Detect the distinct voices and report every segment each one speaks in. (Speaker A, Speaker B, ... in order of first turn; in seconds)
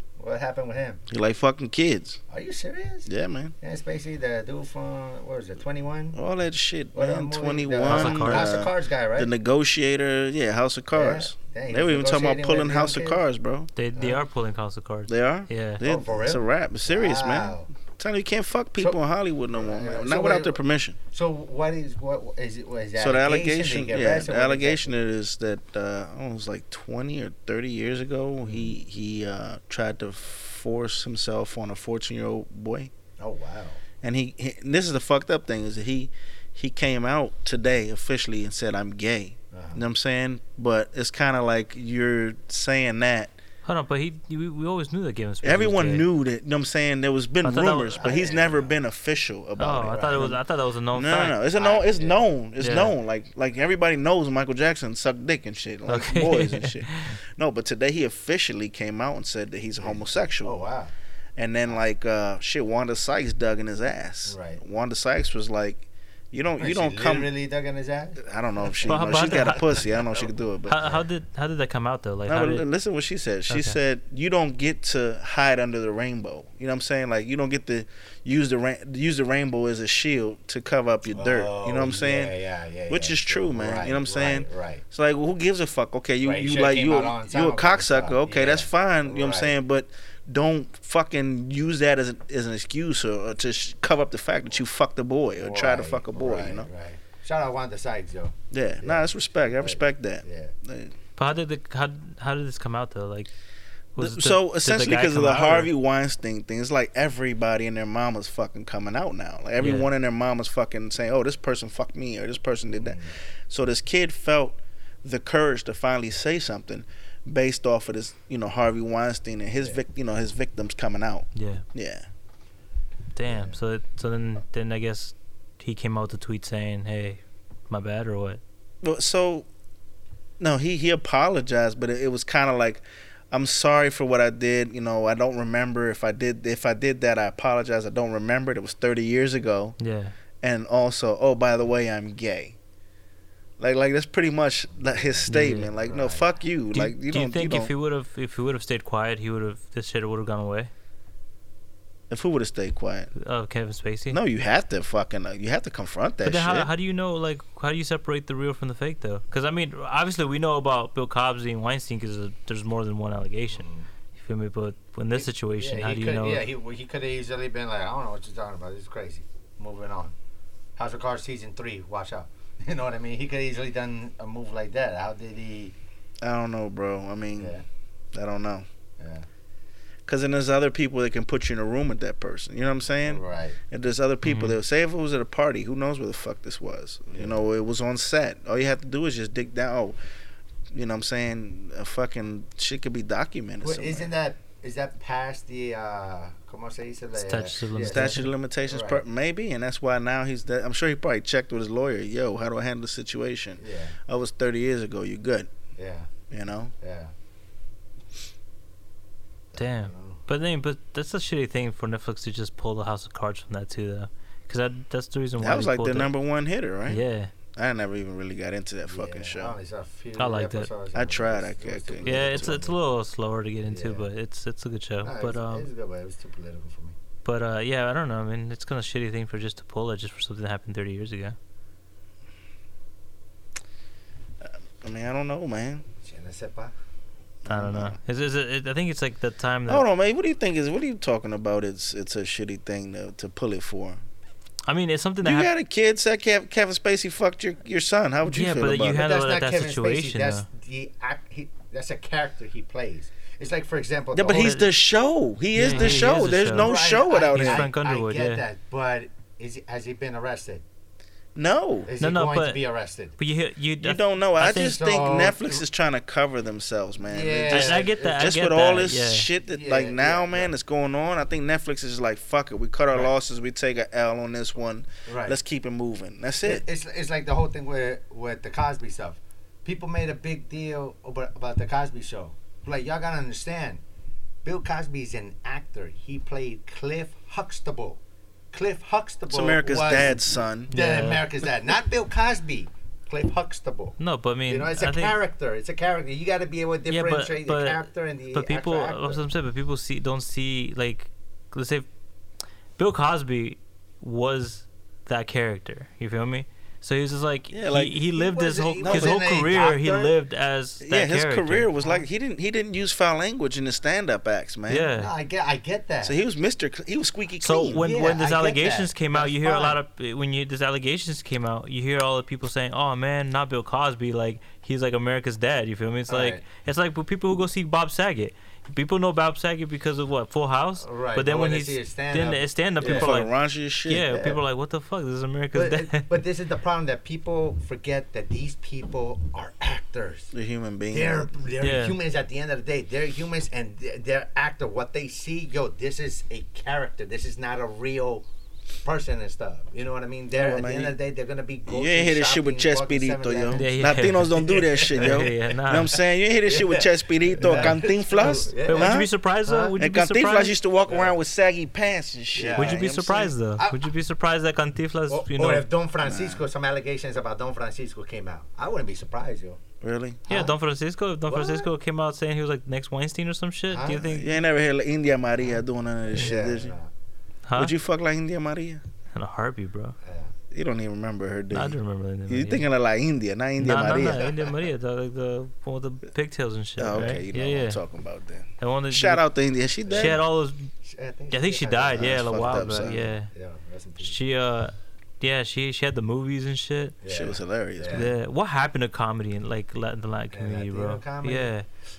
Speaker A: 0.2-1.0, 2.3-3.1, 3.6-6.2, 6.9-9.3, 10.9-13.2, 13.9-14.2, 15.8-17.7, 19.5-20.6, 21.1-24.9, 28.4-28.7, 33.2-33.8, 39.5-39.8, 47.8-48.8, 49.9-50.4, 51.5-52.2, 59.8-60.9, 64.3-64.6, 66.6-70.3, 81.1-84.8, 86.2-89.5, 95.4-100.5, 112.8-113.2, 123.3-123.6, 144.8-146.3, 163.5-163.9, 165.1-170.1, 170.8-175.8, 177.4-177.7, 179.0-179.3, 183.0-183.6, 193.6-199.0, 203.6-204.0, 205.8-206.1, 206.8-207.1, 209.5-210.2, 218.9-222.8, 223.7-224.1, 225.0-227.0, 236.0-236.7, 248.8-254.6, 255.6-260.6, 261.9-263.2, 264.5-265.6, 267.0-268.2, 269.5-270.5, 275.1-275.4, 276.4-283.8, 284.4-288.0, 288.5-299.2, 308.1-310.1, 311.8-312.0, 314.9-316.2, 317.8-319.8, 326.1-326.4, 330.8-333.1, 334.1-334.4, 335.5-340.3, 340.9-348.2, 348.8-355.4, 356.4-359.0, 360.9-361.1, 362.4-363.9, 365.1-369.6, 370.3-370.5, 371.3-371.7, 373.7-374.2, 376.1-376.9, 380.0-380.3, 384.0-384.4, 386.9-387.2, 389.9-390.2, 390.8-394.2, 397.0-398.1, 400.3-401.5
Speaker B: 1.1-2.2, 3.1-3.5, 6.1-13.7, 15.1-21.0, 23.0-32.9, 34.0-43.4, 45.4-50.4, 50.9-60.6, 61.4-67.3, 68.2-71.0, 72.3-82.3, 82.9-96.7, 98.5-100.9, 104.0-122.1, 128.8-129.5, 130.4-139.8, 140.4-142.6, 143.6-147.7, 152.1-153.1, 154.1-156.7, 176.2-177.5, 178.1-178.7, 180.1-190.0, 190.7-194.1, 197.8-205.5, 206.3-206.7, 215.4-217.0, 217.5-219.6, 220.9-222.7, 234.4-235.8, 237.4-238.0, 239.7-244.0, 245.2-249.1, 254.1-257.7, 261.4-261.9, 263.8-276.6, 289.3-290.7, 307.5-308.0, 308.8-309.2, 310.8-314.9, 316.0-317.9, 332.8-334.1, 340.3-341.3, 350.3-351.0, 351.6-363.3, 366.0-366.4, 369.8-370.2, 374.1-376.8, 377.6-378.8, 380.5-384.5, 386.8-390.2, 391.9-393.1, 397.1-398.1
Speaker C: 7.8-8.6, 13.8-15.8, 43.6-46.1, 47.4-48.0, 49.6-51.4, 52.6-52.9, 55.9-57.2, 68.9-69.9, 70.7-72.7, 73.5-73.8, 101.2-103.3, 104.0-105.7, 109.6-109.9, 121.3-121.6, 123.2-128.4, 139.8-140.2, 145.3-145.7, 146.7-150.7, 153.2-154.2, 156.2-166.4, 184.2-184.6, 197.2-198.3, 209.6-216.1, 216.9-217.3, 220.2-220.7, 222.0-225.7, 227.2-231.4, 237.5-239.9, 244.7-245.5, 248.2-250.5, 254.3-254.7, 255.5-258.4, 262.0-262.6, 263.2-264.8, 267.5-269.3, 290.7-291.3, 294.0-295.2, 296.9-301.9, 302.8-311.7, 314.7-315.1, 317.4-336.1, 341.6-342.0, 353.5-355.9, 357.4-360.6, 362.5-365.7, 370.3-374.3, 377.5-377.7, 379.1-380.0, 381.5-382.7, 383.6-387.8, 388.6-389.3, 389.9-390.7, 391.3-393.3, 394.0-396.9, 397.9-401.7